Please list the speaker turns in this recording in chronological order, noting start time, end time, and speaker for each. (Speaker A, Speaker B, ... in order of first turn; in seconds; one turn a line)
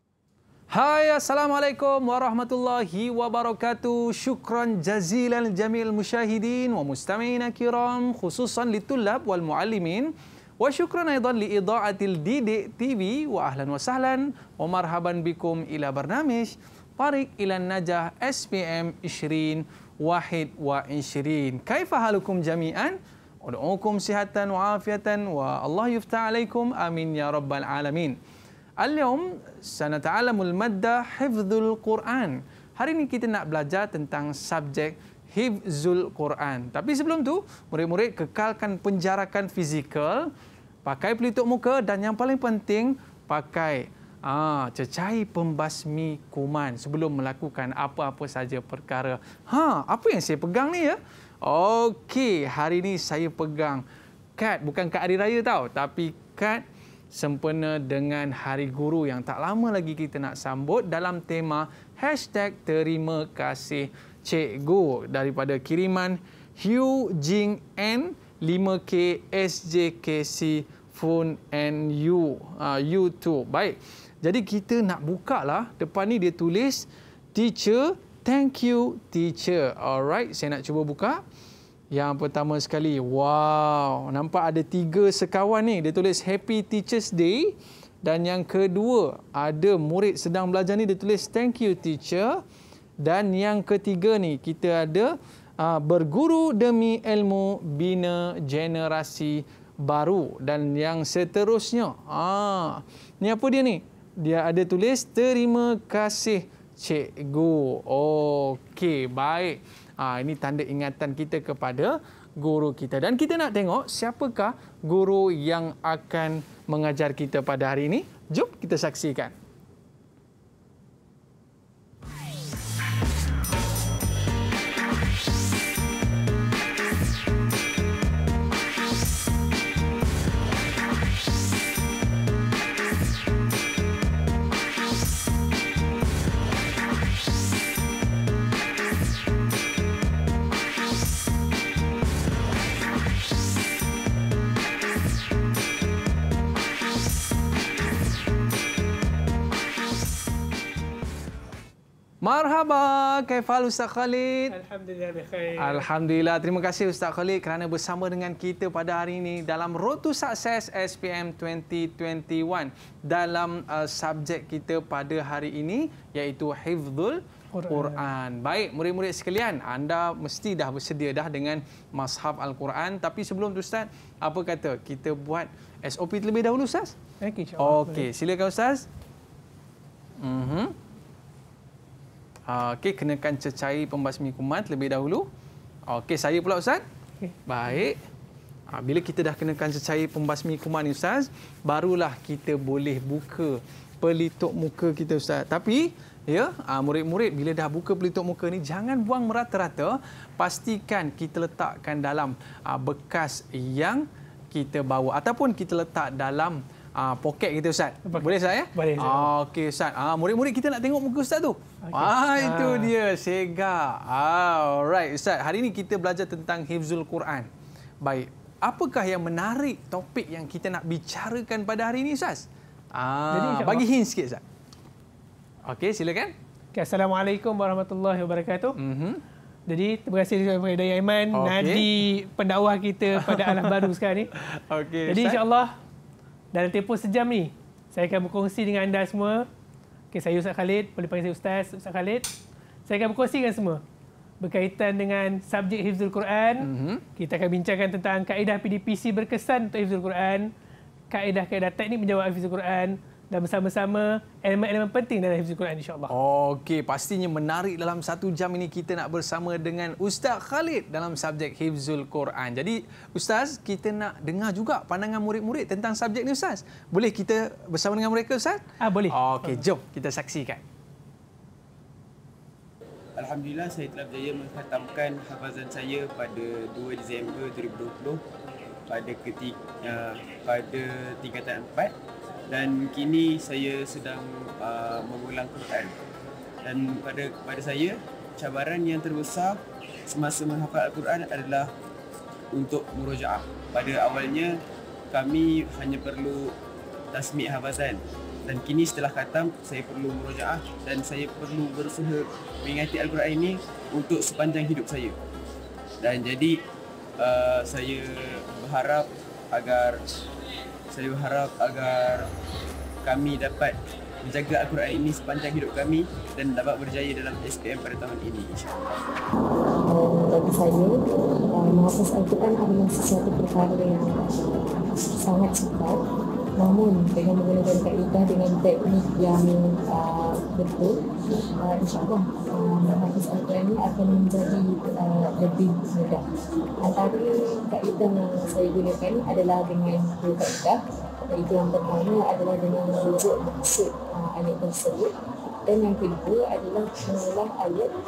Speaker A: 0.7-28.2
Speaker A: 28.8-40.3
Speaker A: 40.8-53.8
Speaker A: 54.4-81.2
Speaker A: 81.9-92.4
Speaker A: 93.0-119.3
Speaker A: 152.2-154.5
Speaker B: 154.5-155.8
Speaker A: 155.6-176.9
Speaker B: 167.5-168.0
Speaker B: 177.2-178.1
Speaker A: 177.6-178.8
Speaker A: 180.2-180.7
Speaker A: 182.5-185.3
Speaker A: 185.9-186.8
Speaker A: 187.5-188.0
Speaker A: 188.7-217.5
Speaker B: 208.1-209.3
Speaker B: 211.8-212.9
Speaker A: 218.0-224.4
Speaker B: 223.3-223.8
Speaker A: 225.7-226.3
Speaker B: 226.7-228.7
Speaker A: 228.8-229.2
Speaker B: 229.7-234.3
Speaker A: 231.3-231.9
Speaker A: 233.2-235.4
Speaker B: 235.1-235.7
Speaker B: 236.5-239.5
Speaker B: 240.1-242.2
Speaker B: 242.9-243.8
Speaker B: 244.4-250.5
Speaker A: 246.6-247.0
Speaker B: 251.1-256.1
Speaker A: 256.1-270.6
Speaker B: 268.8-269.6
Speaker C: 273.2-278.2
Speaker C: 278.9-281.9
Speaker C: 282.5-285.9
Speaker C: 286.6-289.6
Speaker C: 290.1-291.7
Speaker C: 292.5-294.6
Speaker C: 295.1-296.5
Speaker C: 297.1-305.2
Speaker C: 306.0-306.6
Speaker C: 307.2-310.0
Speaker C: 310.9-312.3
Speaker C: 313.0-318.7
Speaker D: 319.8-326.0
Speaker D: 326.6-331.0
Speaker D: 331.6-336.2
Speaker D: 336.8-340.8
Speaker D: 341.3-345.1
Speaker D: 345.6-347.9